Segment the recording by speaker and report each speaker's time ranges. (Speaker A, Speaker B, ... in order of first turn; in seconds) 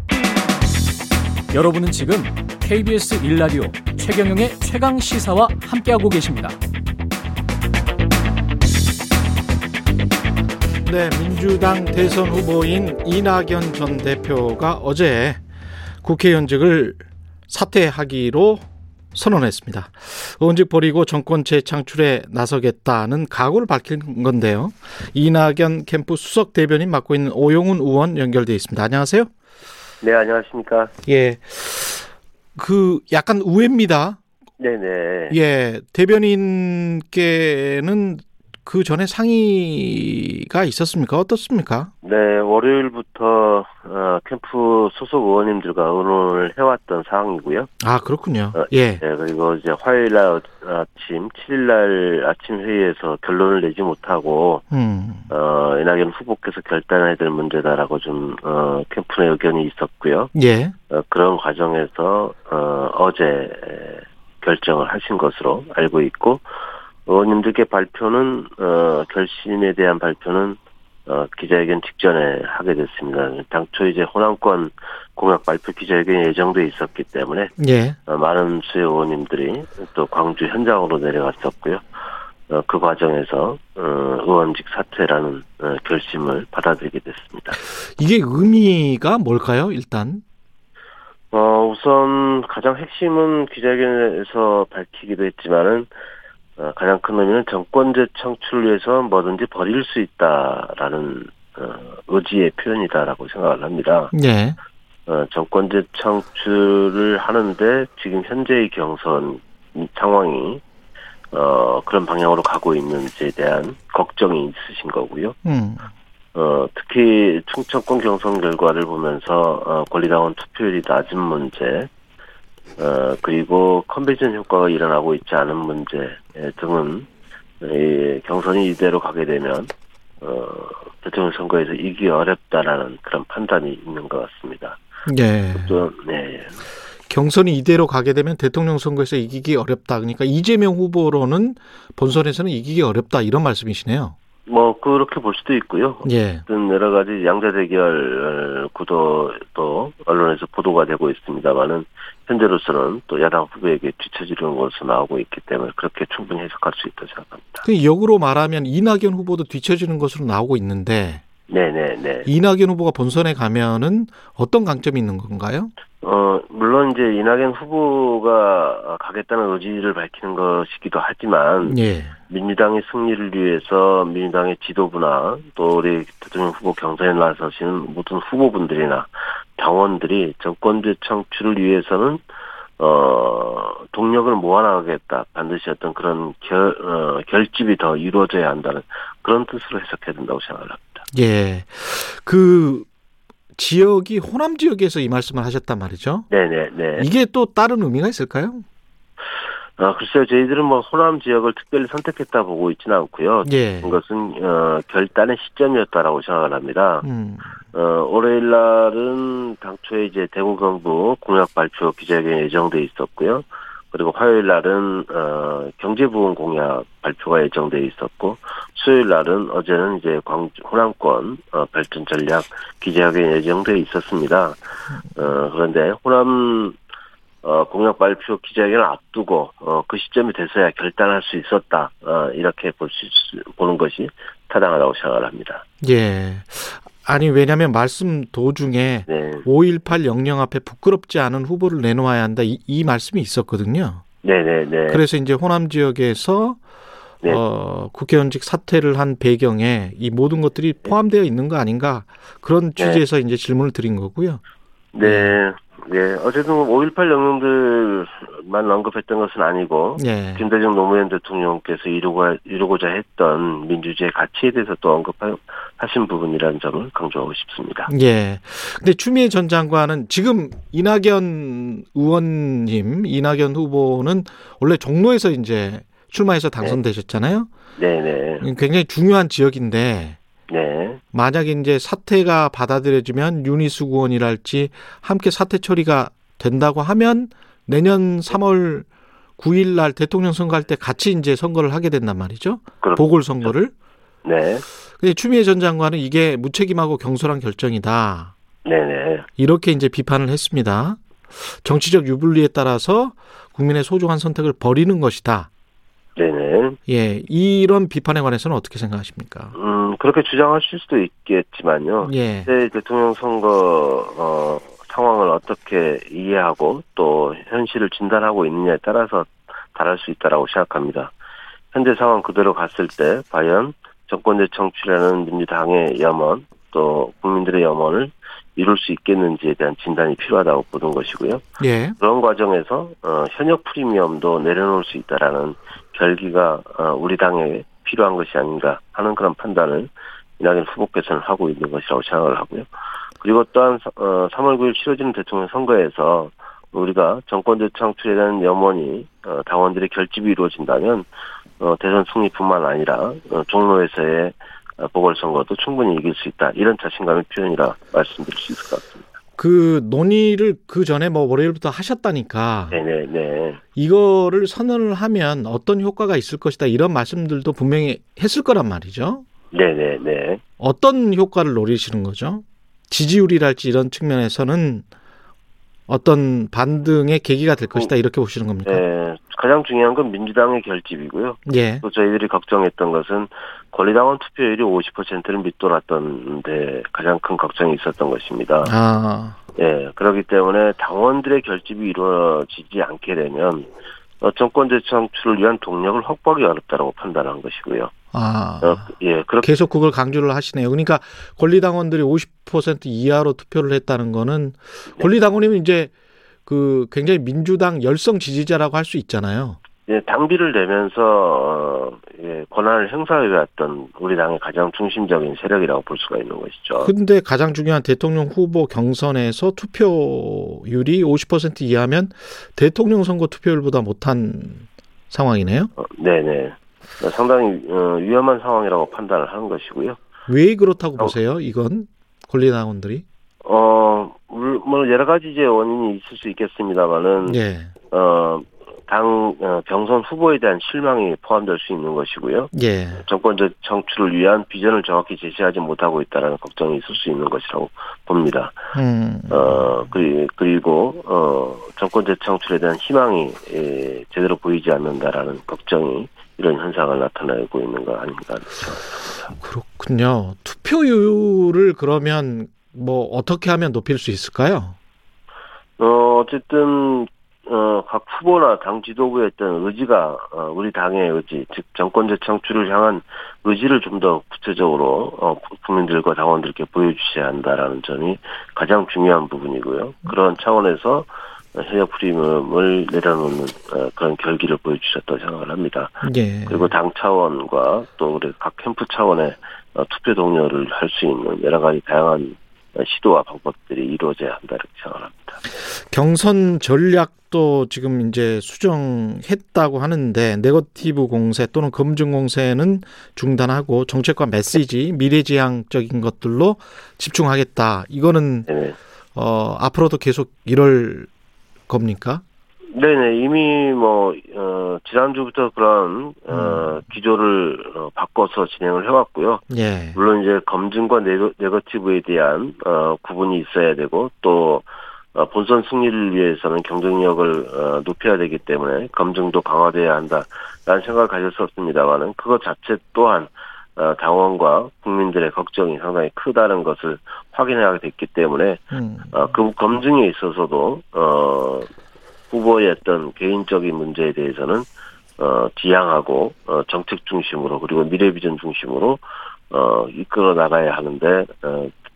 Speaker A: 1.5-6.6
Speaker B: 10.9-15.4, 16.0-18.6, 19.1-29.3, 31.1-34.2, 35.3-41.9, 47.8-49.0, 54.7-55.3, 60.3-60.7, 77.6-78.0, 88.0-90.2, 104.1-104.6, 115.5-115.9, 135.1-135.8, 137.1-144.2, 146.0-146.4, 157.6-161.2, 162.2-165.7, 171.7-172.2, 191.1-192.9, 193.6-196.3, 197.0-198.6, 203.4-204.0, 207.0-207.6, 235.8-244.0, 244.9-246.6, 247.2-254.4, 255.0-255.4, 260.0-260.4, 267.9-277.5, 278.4-280.2, 281.1-288.9, 289.4-293.7, 295.0-298.3, 299.4-305.5, 306.9-309.5, 312.0-312.5, 331.6-331.9, 359.4-362.8, 363.8-369.2, 370.6-374.9, 375.9-378.8, 381.4-381.8, 388.6-389.4, 398.1-398.9, 399.4-405.9, 406.4-409.6, 416.8-425.7, 430.3-433.0, 437.2-437.7, 442.5-443.0, 448.7-449.8, 459.4-464.8, 486.0-486.7, 495.9-508.5, 509.1-511.1, 511.7-512.2, 516.3-516.8, 519.5-520.0, 538.7-539.2
Speaker C: 30.0-30.9, 34.6-35.4, 42.0-47.7, 48.5-54.6, 55.3-60.3, 60.9-66.5, 67.1-77.5, 78.1-81.8, 82.5-87.6, 91.3-95.9, 96.6-104.1, 105.1-110.6, 111.3-115.4, 116.3-121.9, 122.8-127.1, 127.6-134.8, 135.6-136.6, 144.5-157.7, 161.5-162.3, 166.0-182.2, 182.8-191.0, 196.3-197.1, 199.8-207.1, 207.7-224.6, 225.2-226.8, 227.4-235.7, 239.1-239.5, 244.2-245.0, 252.8-253.0, 254.9-267.9, 277.8-278.4, 280.5-281.0, 292.8-293.5, 294.2-294.6, 298.6-299.3, 306.1-306.8, 309.5-321.1, 321.7-331.4, 332.0-342.6, 343.2-351.1, 351.6-359.0, 362.7-363.6, 369.5-370.4, 378.6-388.7, 389.6-393.7, 394.2-397.9, 398.6-399.5, 409.9-416.9, 425.8-430.0, 433.4-448.6, 449.3-459.3, 465.8-495.4, 508.5-508.8, 512.7-541.7, 542.3-551.7